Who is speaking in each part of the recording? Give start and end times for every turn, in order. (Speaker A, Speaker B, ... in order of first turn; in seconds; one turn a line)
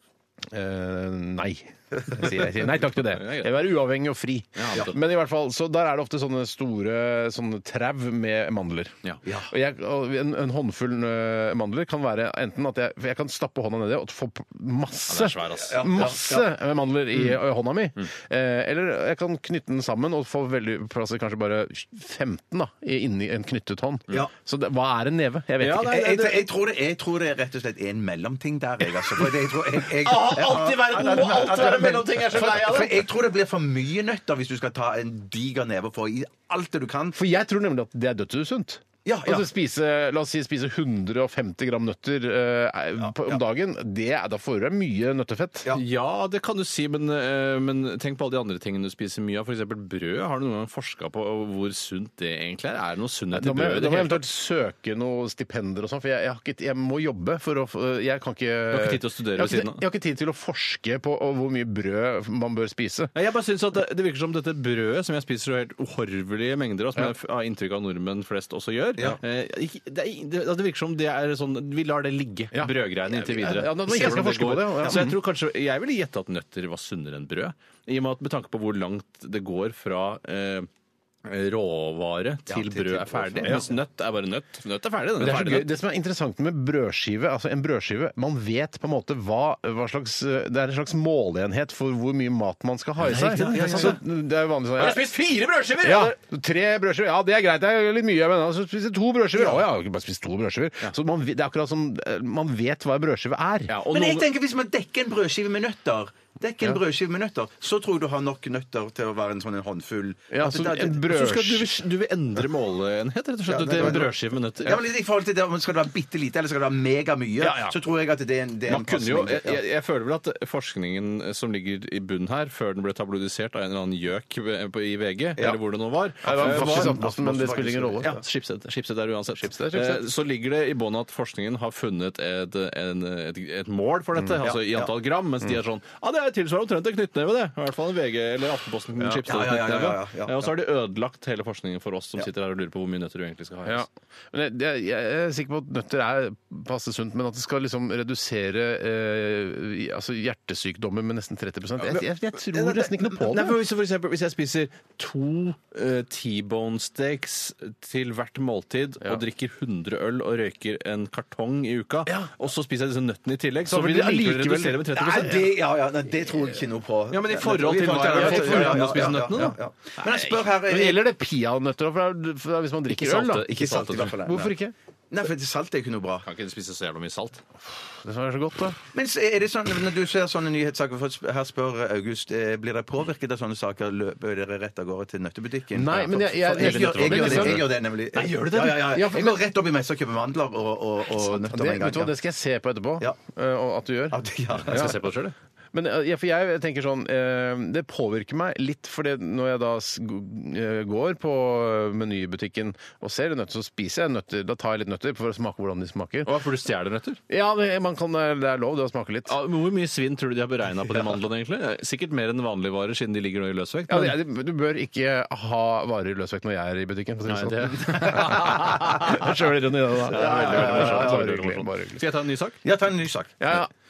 Speaker A: 0.5-26.0
Speaker B: 3.0-3.5
Speaker B: 4.5-5.0
Speaker C: 9.2-9.5
Speaker B: 15.1-16.1
Speaker C: 15.7-16.5
Speaker B: 25.6-26.4
Speaker C: 25.9-37.2
Speaker B: 29.9-33.0
Speaker A: 37.1-45.7
Speaker C: 39.0-39.5
Speaker C: 43.0-43.4
Speaker B: 45.7-54.2
Speaker A: 53.3-63.1
Speaker B: 58.7-59.8
Speaker B: 63.1-80.7
Speaker A: 72.5-75.2
Speaker B: 81.2-85.7
Speaker C: 82.5-83.7
Speaker A: 85.2-95.1
Speaker B: 93.0-94.0
Speaker C: 93.1-94.0
Speaker B: 94.8-96.2
Speaker A: 95.8-103.7
Speaker C: 99.4-99.6
Speaker B: 103.7-104.3
Speaker C: 103.9-111.0
Speaker A: 110.3-111.7
Speaker B: 110.7-114.8
Speaker C: 113.5-119.6
Speaker B: 117.4-117.7
Speaker B: 118.7-127.0
Speaker A: 126.2-128.1
Speaker C: 126.2-128.2
Speaker B: 128.0-143.8
Speaker A: 129.3-130.1
Speaker C: 134.4-134.9
Speaker C: 139.3-140.5
Speaker A: 143.6-153.6
Speaker B: 152.5-165.5
Speaker A: 163.7-165.3
Speaker C: 164.9-171.0
Speaker B: 167.1-169.6
Speaker A: 168.1-173.5
Speaker B: 172.9-174.2
Speaker C: 173.5-174.5
Speaker A: 174.1-174.7
Speaker C: 175.1-176.3
Speaker B: 176.2-177.4
Speaker A: 177.7-178.8
Speaker C: 178.9-192.1
Speaker A: 185.7-187.7
Speaker B: 186.6-188.7
Speaker A: 188.3-189.4
Speaker A: 191.1-194.9
Speaker C: 194.1-194.9
Speaker B: 194.7-195.3
Speaker A: 195.7-206.3
Speaker B: 206.2-207.2
Speaker A: 207.3-209.3
Speaker B: 209.2-214.2
Speaker A: 213.9-222.0
Speaker B: 217.2-219.3
Speaker B: 220.1-222.6
Speaker C: 220.1-221.2
Speaker C: 222.6-223.4
Speaker A: 223.4-223.7